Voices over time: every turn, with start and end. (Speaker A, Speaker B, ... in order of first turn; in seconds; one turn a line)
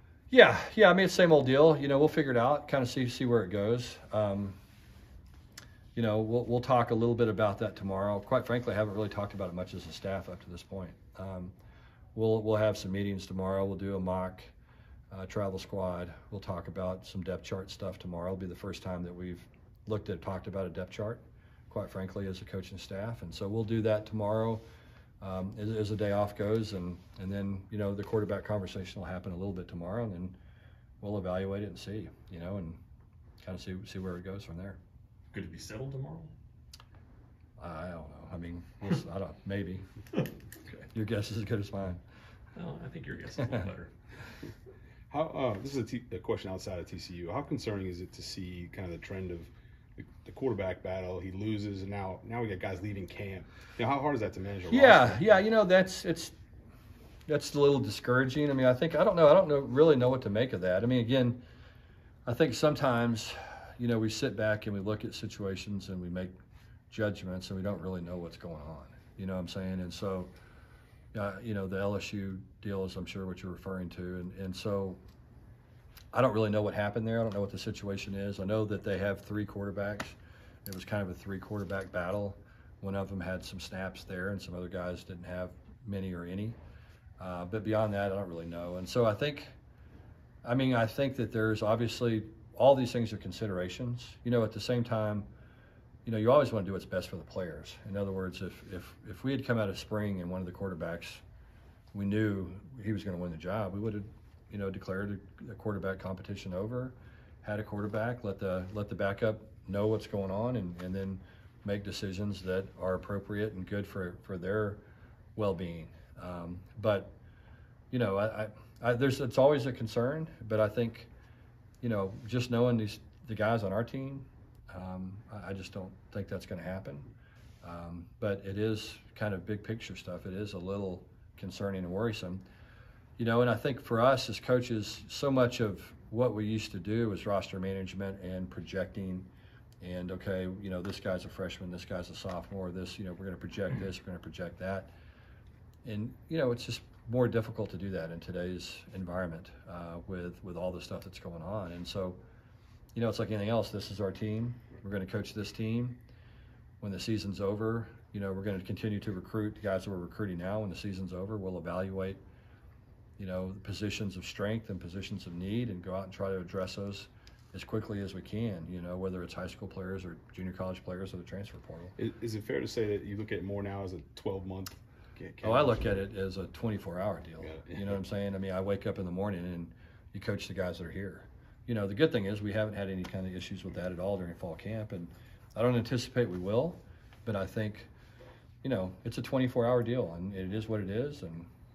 Speaker A: 0.3-4.6
Speaker A: 5.9-11.5
Speaker A: 12.1-14.5
Speaker A: 15.1-24.6
Speaker A: 25.2-30.4
Speaker A: 31.0-32.8
Speaker A: 33.4-34.8
Speaker B: 35.3-36.3
Speaker A: 37.6-39.9
Speaker A: 40.7-42.0
Speaker B: 42.5-43.9
Speaker C: 45.1-55.3
Speaker A: 54.7-56.3
Speaker A: 57.3-61.4
Speaker A: 62.2-66.3
Speaker A: 66.9-70.3
Speaker A: 71.1-75.0
Speaker A: 76.1-86.6
Speaker A: 87.2-89.5
Speaker A: 90.4-95.3
Speaker A: 96.0-101.2
Speaker A: 101.9-114.8
Speaker A: 115.3-117.1
Speaker A: 117.9-121.1
Speaker A: 121.8-127.1
Speaker A: 127.6-132.4
Speaker A: 133.2-139.3
Speaker A: 139.8-144.9
Speaker A: 145.8-152.2
Speaker A: 152.9-156.0
Speaker A: 156.8-162.2
Speaker A: 163.2-171.9
Speaker C: 172.0-176.0
Speaker A: 175.4-187.9
Speaker C: 177.4-177.9
Speaker A: 188.6-191.5